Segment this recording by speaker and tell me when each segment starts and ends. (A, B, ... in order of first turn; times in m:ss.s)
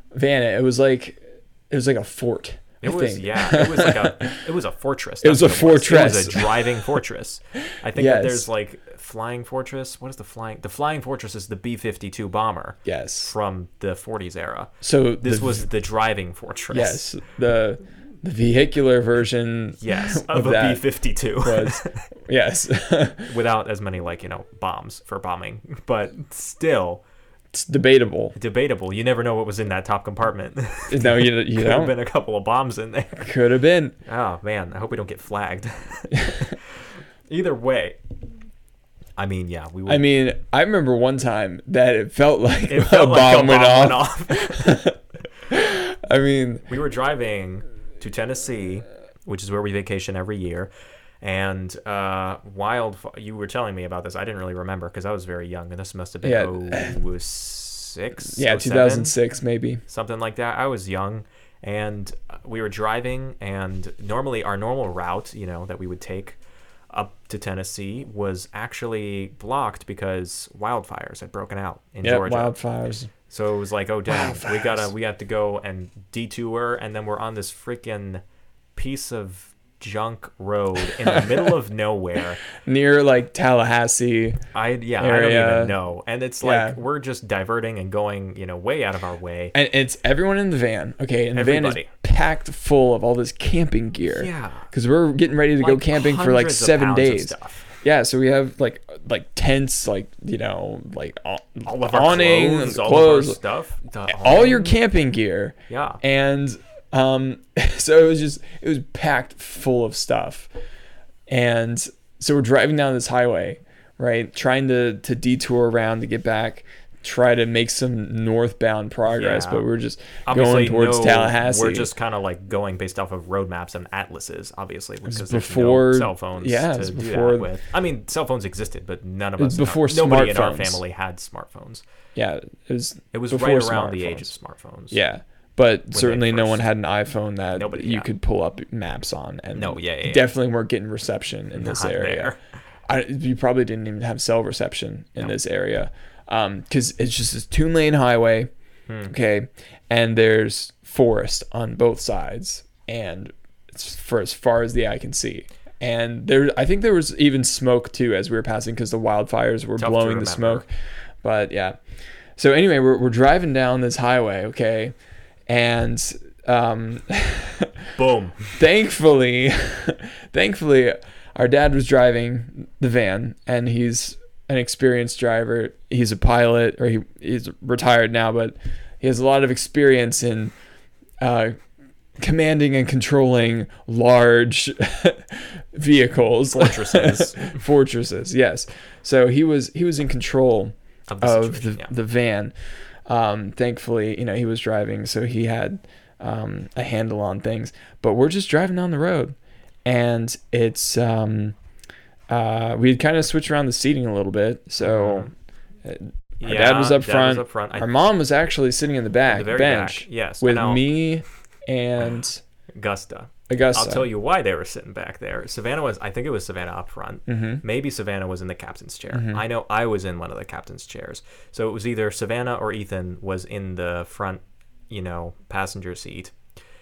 0:00.2-0:04.4 A
0:02.8-0:17.0 B
0:05.2-0:06.8 A
0:07.9-0:08.5 A
0:12.8-0:13.3 A
0:14.8-0:15.7 A
0:16.7-0:23.3 A
0:19.8-0:22.0 B
0:23.3-0:27.0 B
0:27.5-0:28.4 A
0:28.4-0:33.3 B
0:30.9-0:32.0 A
0:33.2-0:34.0 A
0:34.1-0:38.0 B
0:39.2-0:40.1 B
0:39.9-0:45.0 A
0:42.7-0:44.8 B
0:45.5-0:46.7 A
0:46.7-0:50.7 B
0:51.2-0:59.2 B
0:56.2-0:57.0 A
0:58.3-0:59.8 A
0:59.9-1:06.4 B
1:06.9-1:12.6 B
1:12.0-1:13.1 A
1:13.3-1:18.2 B
1:14.1-1:14.9 A
1:18.8-1:22.4 B
1:21.0-1:21.5 A
1:22.6-1:24.4 A
1:24.5-1:29.5 B
1:25.0-1:25.8 A
1:26.4-1:26.8 A
1:29.5-1:43.4 A
1:31.4-1:31.9 B
1:34.1-1:34.7 B
1:35.6-1:37.7 B
1:41.7-1:44.7 B
1:44.1-1:50.5 A
1:45.7-1:46.0 B
1:51.3-2:01.9 A
1:59.1-1:59.7 B
2:00.3-2:11.8 B
2:05.0-2:07.5 A
2:09.4-2:10.8 A
2:12.2-2:14.3 A
2:13.1-2:15.0 B
2:14.9-2:22.4 A
2:15.9-2:16.7 B
2:17.6-2:18.1 B
2:19.5-2:20.3 B
2:21.6-2:22.4 B
2:22.9-2:28.5 A
2:28.9-2:29.1 B
2:29.1-2:40.7 A
2:39.8-2:40.6 B
2:41.2-2:41.8 A
2:42.4-2:45.0 A
2:45.5-2:47.9 A
2:48.0-2:48.5 B
2:48.6-3:00.5 A
3:01.2-3:01.5 A
3:02.2-3:12.5 A
3:06.6-3:07.6 B
3:11.1-3:11.9 B
3:13.1-3:19.4 A
3:19.9-3:21.6 A
3:22.3-3:25.3 A
3:24.8-3:25.3 B
3:25.8-3:32.4 A
3:26.4-3:28.1 B
3:29.3-3:30.9 B
3:32.8-3:46.4 B
3:33.5-3:34.1 A
3:37.3-3:37.6 A
3:39.1-3:39.4 A